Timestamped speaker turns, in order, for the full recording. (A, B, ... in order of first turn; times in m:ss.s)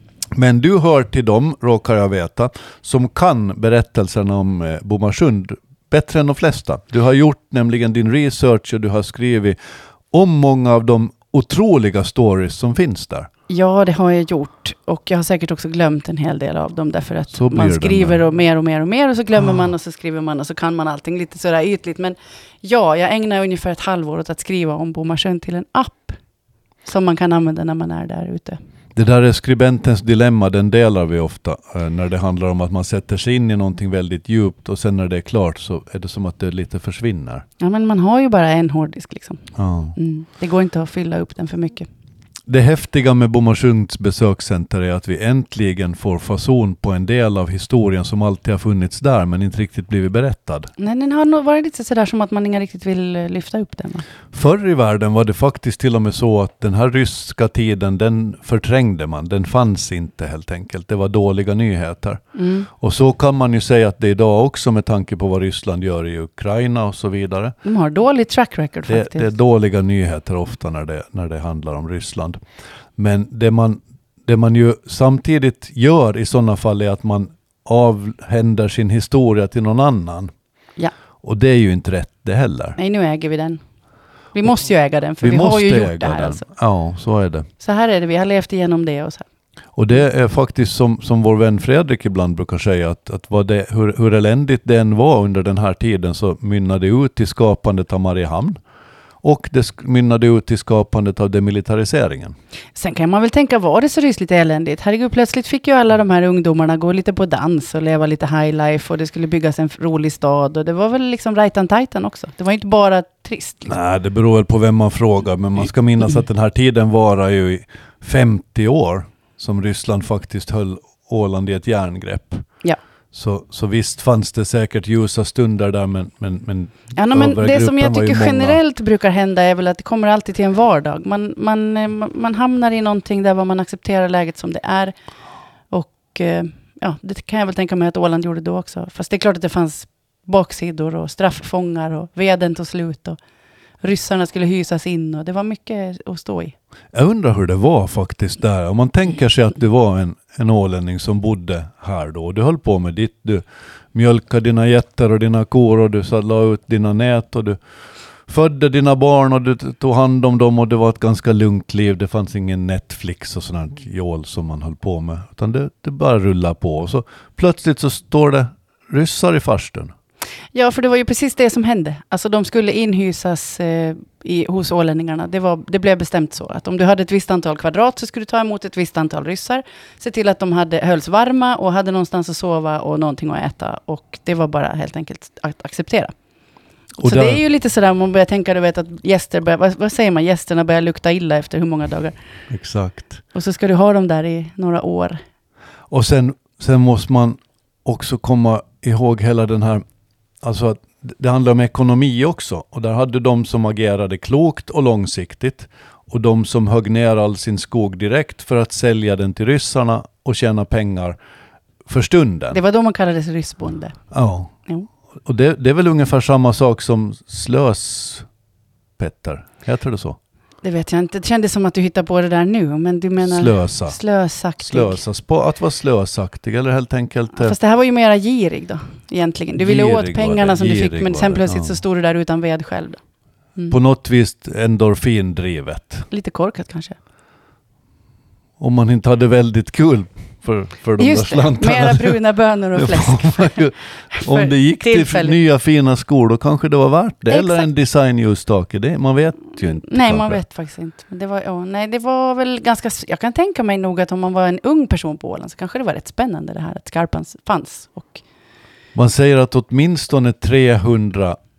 0:00.3-0:09.6 A
0:10.1-0:13.3 A
0:13.5-0:26.2 B
0:17.3-0:18.2 A
0:26.8-0:28.6 B
0:28.9-0:37.4 A
0:37.6-0:39.4 B
0:39.6-0:39.9 A
0:40.0-0:41.9 B
0:42.5-0:50.7 A
0:50.8-0:54.0 B
0:54.3-1:07.6 A
1:02.3-1:02.7 B
1:07.6-1:09.3 B
1:08.9-1:12.4 A
1:13.0-1:20.3 A
1:21.2-1:22.8 A
1:22.8-1:23.6 B
1:24.3-1:26.4 B
1:25.2-1:27.5 A
1:27.6-1:29.2 B
1:29.8-1:38.6 A
1:39.2-1:42.3 A
1:42.8-1:53.7 B
1:53.7-2:02.4 A
2:03.1-2:08.6 A
2:06.9-2:14.9 B
2:15.7-2:23.2 B
2:23.8-2:26.5 B
2:26.9-2:33.4 A
2:33.9-2:37.6 A
2:38.3-2:49.9 A
2:50.5-3:06.1 B
3:07.0-3:07.4 A
3:07.0-3:12.1 B
3:12.5-3:13.2 A
3:13.3-3:15.2 B
3:15.9-3:19.8 A
3:20.4-3:31.2 A
3:31.9-3:32.6 A
3:32.5-3:34.0 B
3:34.1-3:34.5 A
3:35.2-3:38.3 A
3:39.0-3:40.2 A
3:40.6-3:45.0 B
3:43.2-3:44.0 A
3:44.6-3:47.5 A
3:47.4-3:53.0 B
3:49.6-3:51.8 A
3:53.7-3:56.1 A
3:56.1-3:57.0 B
3:58.6-4:02.2 A
4:01.0-4:05.4 B
4:02.7-4:10.4 A
4:07.3-4:07.7 B
4:09.8-4:18.2 B
4:18.9-4:21.4 A